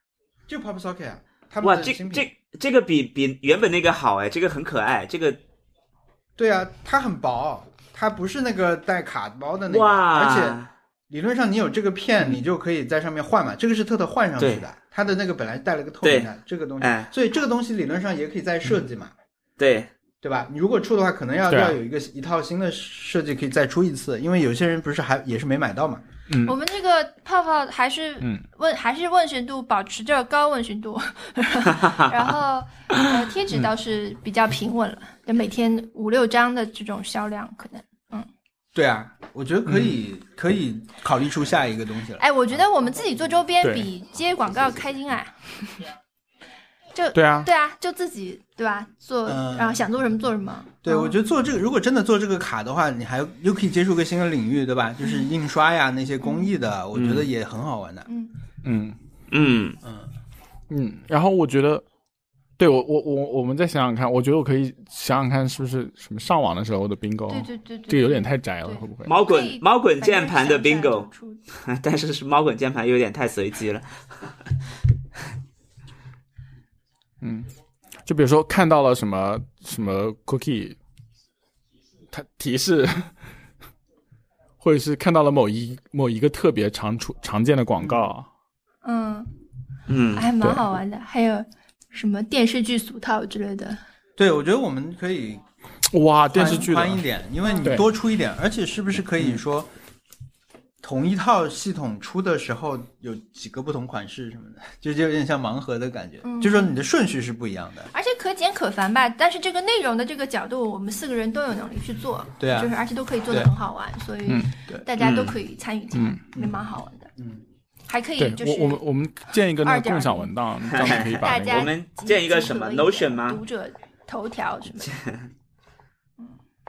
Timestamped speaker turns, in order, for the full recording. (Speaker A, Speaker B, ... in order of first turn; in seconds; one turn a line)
Speaker A: 0.5-2.3
Speaker B: 1.6-5.4
Speaker A: 6.4-19.1
Speaker B: 9.7-10.7
Speaker B: 14.4-14.6
Speaker B: 16.0-16.3
Speaker B: 16.8-17.1
Speaker B: 19.6-19.9
Speaker A: 20.2-26.0
Speaker C: 21.5-21.8
Speaker C: 26.3-26.6
Speaker D: 26.4-38.3
Speaker A: 38.7-42.6
Speaker C: 39.6-40.0
Speaker D: 42.2-45.8
Speaker C: 43.6-43.9
Speaker D: 46.9-51.1
Speaker C: 47.1-47.5
Speaker A: 49.2-49.9
Speaker A: 50.8-58.1
Speaker D: 56.2-56.5
Speaker B: 56.9-57.3
Speaker D: 58.1-58.4
Speaker C: 58.6-59.0
Speaker B: 59.3-59.8
Speaker A: 59.8-60.1
Speaker C: 60.7-61.8
Speaker C: 62.6-69.1
Speaker D: 67.3-71.4
Speaker B: 69.0-73.9
Speaker C: 77.2-77.5
Speaker C: 78.0-80.8
Speaker C: 82.1-83.2
Speaker C: 84.6-88.3
Speaker A: 87.8-88.0
Speaker D: 88.8-89.3
Speaker B: 89.9-90.3
Speaker D: 90.1-93.8
Speaker A: 94.2-95.4
Speaker C: 95.9-97.0
Speaker A: 96.3-99.7
Speaker C: 97.6-97.9
Speaker A: 100.8-107.9
Speaker D: 106.2-106.7
Speaker D: 107.9-117.1
Speaker A: 112.4-112.7
Speaker C: 114.3-114.6
Speaker B: 115.0-115.4
Speaker C: 115.9-116.2
Speaker A: 117.2-117.4
Speaker D: 117.9-118.8
Speaker C: 118.2-121.7
Speaker D: 119.6-125.0
Speaker B: 120.8-123.4
Speaker B: 124.9-125.1